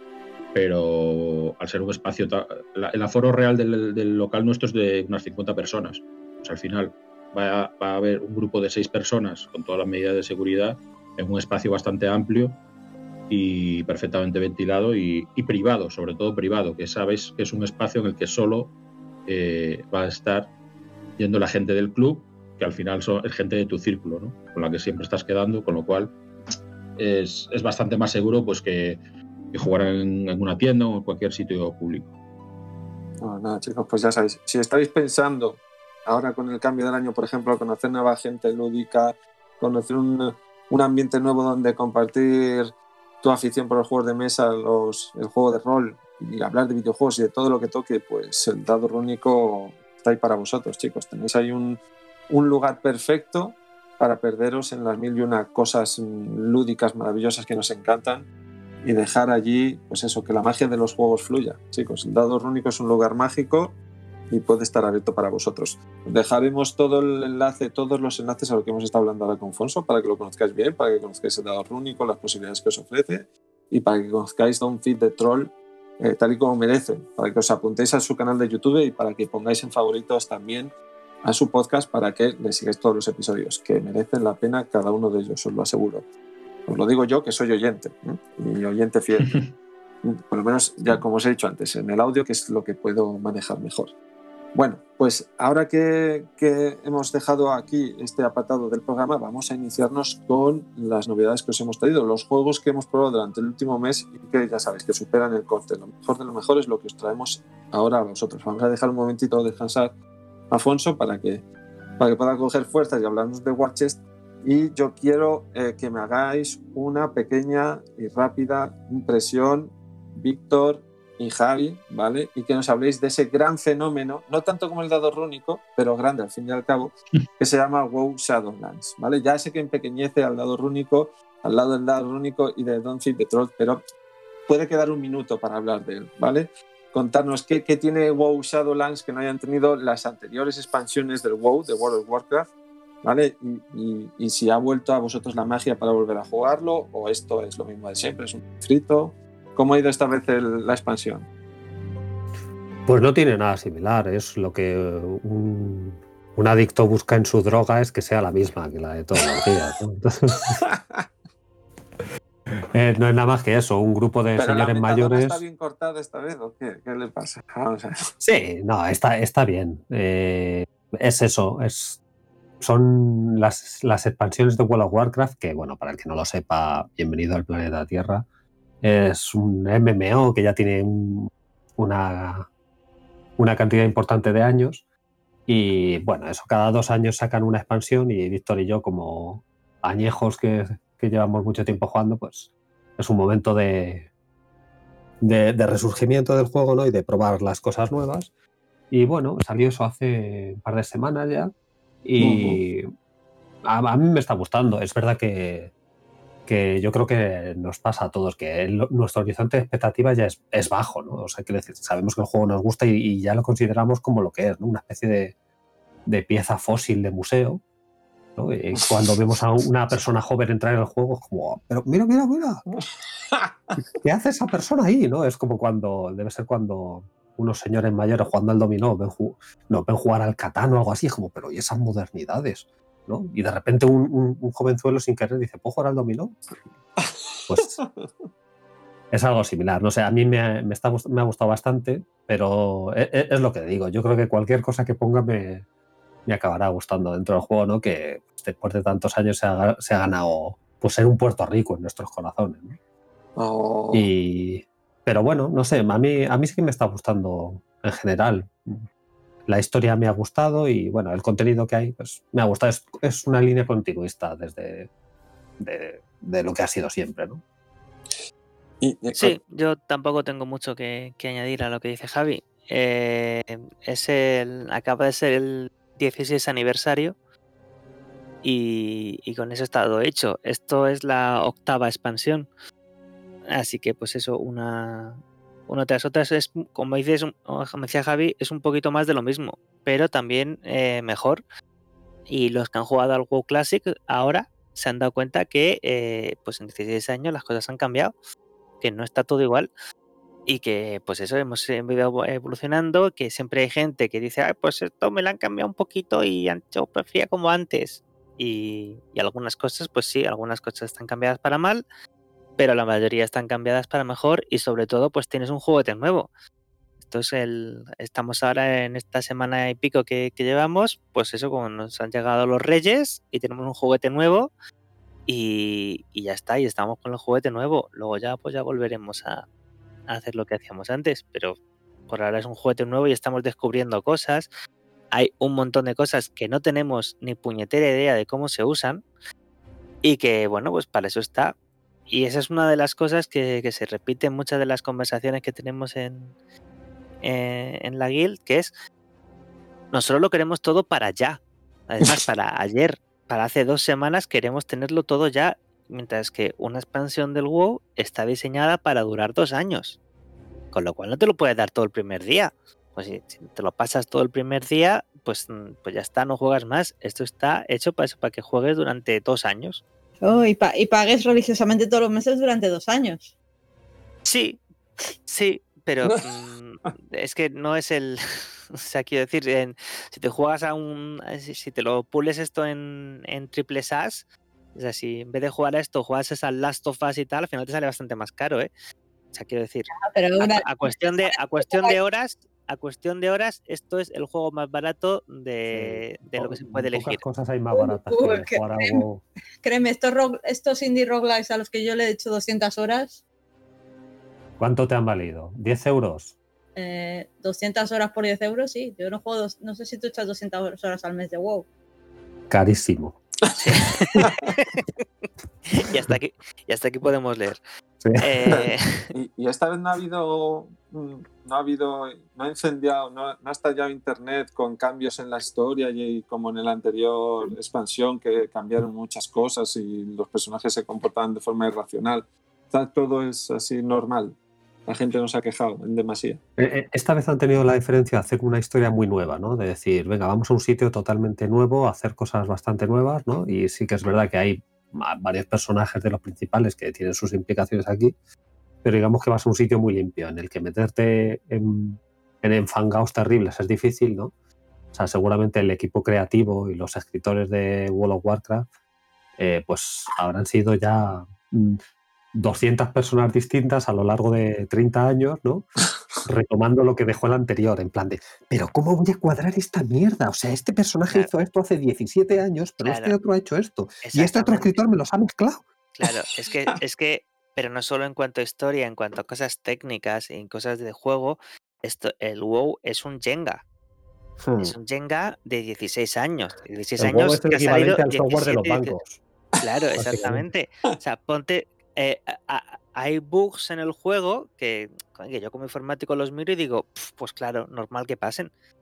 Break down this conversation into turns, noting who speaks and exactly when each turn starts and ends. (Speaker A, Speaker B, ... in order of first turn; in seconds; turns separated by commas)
Speaker A: 0.5-12.6, Speaker A: 13.3-18.7, Speaker A: 19.3-20.5, Speaker A: 21.2-26.1, Speaker A: 27.0-29.0, Speaker A: 29.5-32.1, Speaker B: 33.2-58.3, Speaker B: 58.8-63.8, Speaker B: 64.3-86.0, Speaker B: 86.7-89.4, Speaker A: 89.2-89.5, Speaker B: 90.0-93.9, Speaker B: 94.5-110.0, Speaker B: 110.5-111.4, Speaker B: 112.0-133.8, Speaker B: 134.5-142.5, Speaker B: 143.0-151.3, Speaker C: 152.9-160.6, Speaker B: 160.7-161.1, Speaker C: 162.7-165.4, Speaker B: 164.4-168.1, Speaker C: 168.2-172.0, Speaker C: 172.6-178.3, Speaker C: 178.8-182.5, Speaker C: 183.4-184.8, Speaker C: 185.5-194.1, Speaker C: 195.2-198.3, Speaker C: 198.9-201.5, Speaker C: 202.0-202.9, Speaker B: 202.2-202.6, Speaker C: 203.6-205.7, Speaker C: 206.5-215.3, Speaker C: 216.1-217.6, Speaker C: 218.4-222.6, Speaker B: 223.3-223.8, Speaker C: 224.0-236.4, Speaker C: 237.5-237.8, Speaker B: 237.8-238.1, Speaker C: 239.1-245.7, Speaker C: 246.3-252.8, Speaker B: 253.4-254.1, Speaker C: 253.9-258.9, Speaker C: 259.5-264.9, Speaker C: 265.6-267.4, Speaker B: 268.8-269.4, Speaker D: 269.2-277.2, Speaker D: 278.4-282.5, Speaker D: 283.5-291.4, Speaker D: 292.3-298.1, Speaker D: 298.8-299.7, Speaker D: 300.5-311.9, Speaker D: 312.6-316.3, Speaker D: 317.0-324.5, Speaker D: 325.3-329.4, Speaker D: 330.1-331.6, Speaker D: 332.1-334.5, Speaker D: 335.1-339.0, Speaker D: 340.0-341.6, Speaker D: 342.1-346.4, Speaker D: 347.2-348.7, Speaker D: 349.9-360.0, Speaker D: 360.7-369.8, Speaker E: 370.2-373.3, Speaker D: 374.2-374.6, Speaker D: 375.3-388.7, Speaker D: 389.3-397.2, Speaker E: 389.9-392.0, Speaker C: 395.7-399.2, Speaker E: 397.7-399.0, Speaker E: 399.6-403.2, Speaker C: 404.6-406.4, Speaker E: 406.8-411.7, Speaker C: 412.5-413.2, Speaker D: 413.7-414.8, Speaker D: 415.7-417.6, Speaker C: 418.0-418.6, Speaker D: 418.2-419.1, Speaker B: 419.1-436.4, Speaker C: 436.6-448.1, Speaker C: 448.8-454.3, Speaker C: 454.9-458.7, Speaker C: 459.4-461.8, Speaker C: 462.3-465.7, Speaker C: 466.2-475.6, Speaker D: 472.8-473.1, Speaker D: 474.0-474.8, Speaker D: 475.9-483.6, Speaker C: 484.4-484.8, Speaker D: 484.6-489.0, Speaker C: 487.0-489.2, Speaker D: 489.6-498.5, Speaker C: 490.0-490.5